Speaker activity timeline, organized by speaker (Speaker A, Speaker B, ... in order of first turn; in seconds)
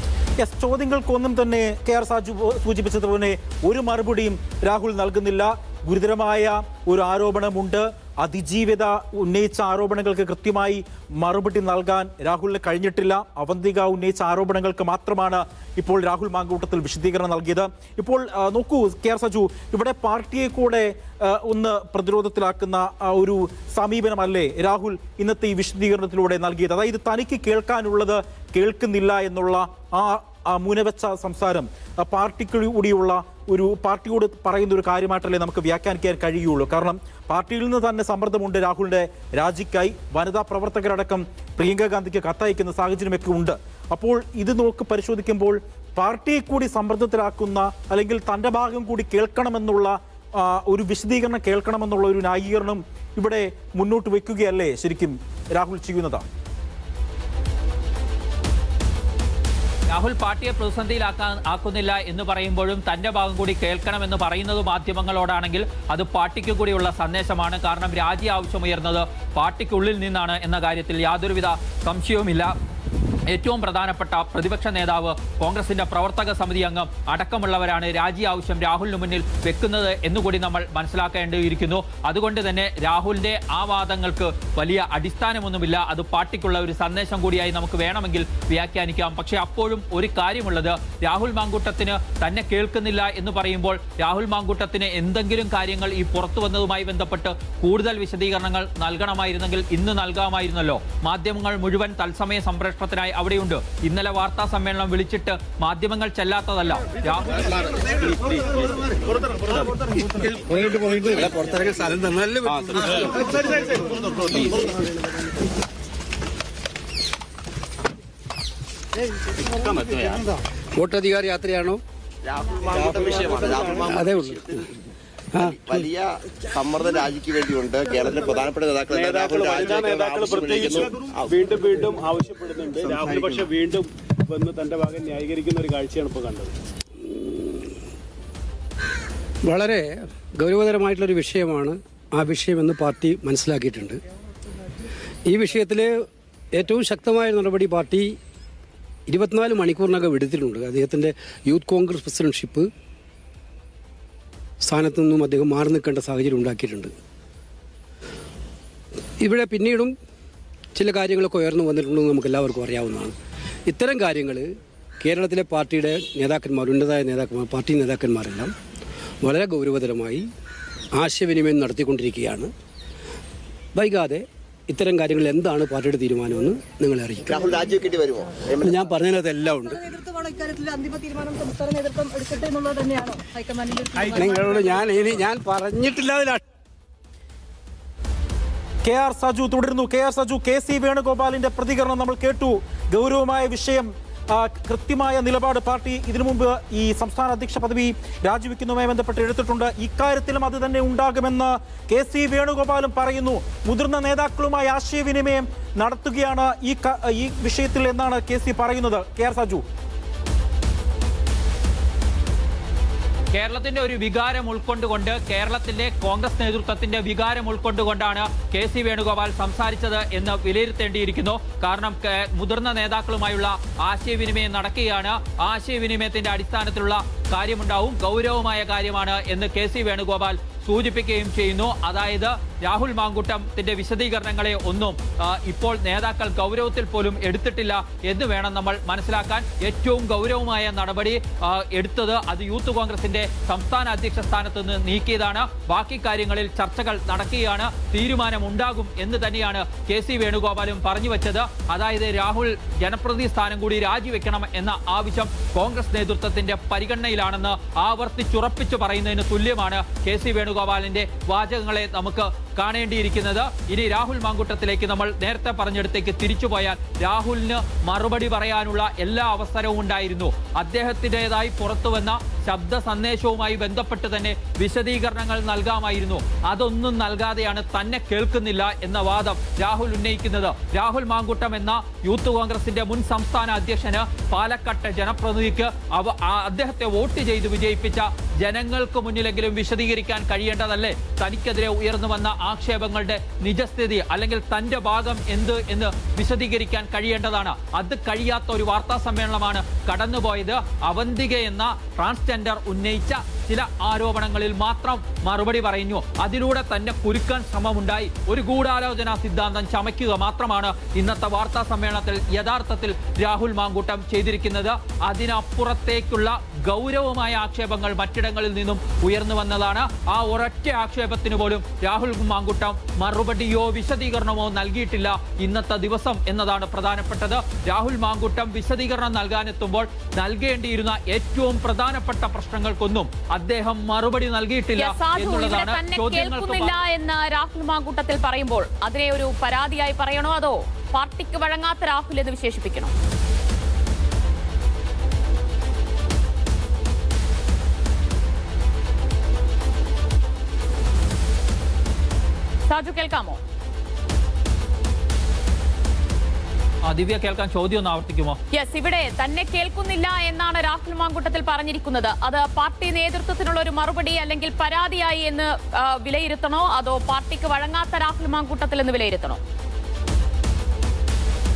Speaker A: 0.4-56.3, 188.8-209.6
Speaker B: 59.9-72.5, 73.3-107.4, 213.3-336.8, 356.9-358.4
Speaker C: 109.6-113.4, 114.3-114.7, 120.8-121.8, 123.9-124.6, 125.3-125.8, 139.5-144.0, 145.3-148.2, 149.1-152.7, 154.6-156.9, 159.2-159.9, 160.8-163.2, 163.7-168.5, 169.2-170.2, 170.9-172.5, 173.8-177.4, 178.6-179.8, 184.0-186.4
Speaker D: 122.2-124.6, 125.4-131.3, 133.0-133.4, 177.3-178.9
Speaker E: 122.7-123.8, 128.9-136.5
Speaker F: 179.7-184.8
Speaker G: 334.8-342.9, 352.7-353.4, 358.5-369.4